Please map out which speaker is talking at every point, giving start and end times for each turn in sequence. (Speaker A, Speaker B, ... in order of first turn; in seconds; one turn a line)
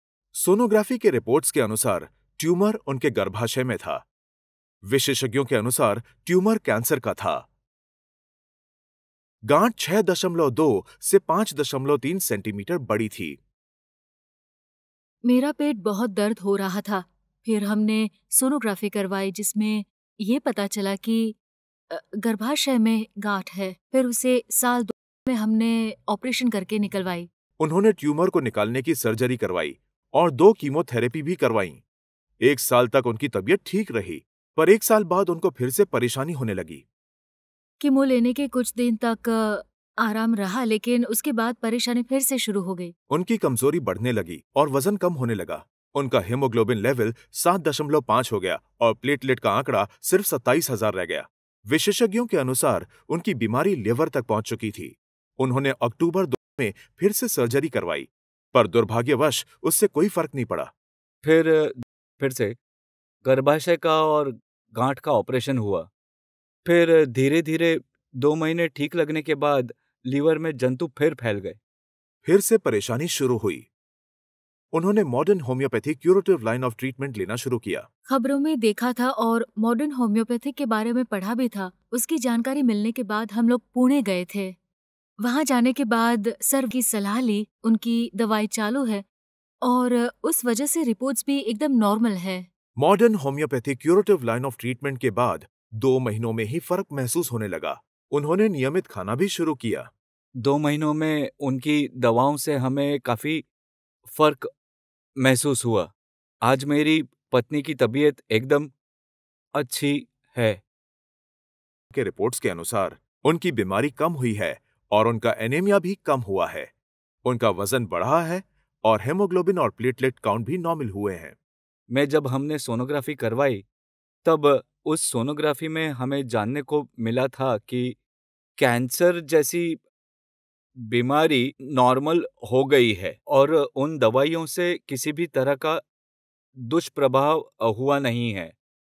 Speaker A: 0.3-4.0
Speaker A: 4.9-7.4
Speaker A: 9.5-13.4
Speaker B: 15.2-21.4
Speaker B: 21.9-27.3
Speaker A: 27.6-31.8
Speaker A: 32.4-36.8
Speaker B: 37.8-42.9
Speaker A: 43.1-60.7
Speaker C: 61.2-62.5
Speaker C: 63.2-65.9
Speaker C: 66.6-71.6
Speaker A: 72.2-73.7
Speaker A: 74.7-77.9
Speaker B: 78.1-84.5
Speaker B: 85.2-89.0
Speaker B: 89.6-92.5
Speaker A: 92.8-99.9
Speaker C: 100.4-103.4
Speaker C: 104.0-104.5
Speaker C: 105.2-105.9
Speaker C: 106.4-108.7
Speaker C: 109.5-110.6
Speaker A: 111.9-116.7
Speaker A: 117.2-121.4
Speaker C: 121.9-123.6
Speaker C: 124.2-128.0
Speaker C: 128.6-129.8
Speaker C: 130.8-135.8
Speaker C: 136.6-138.6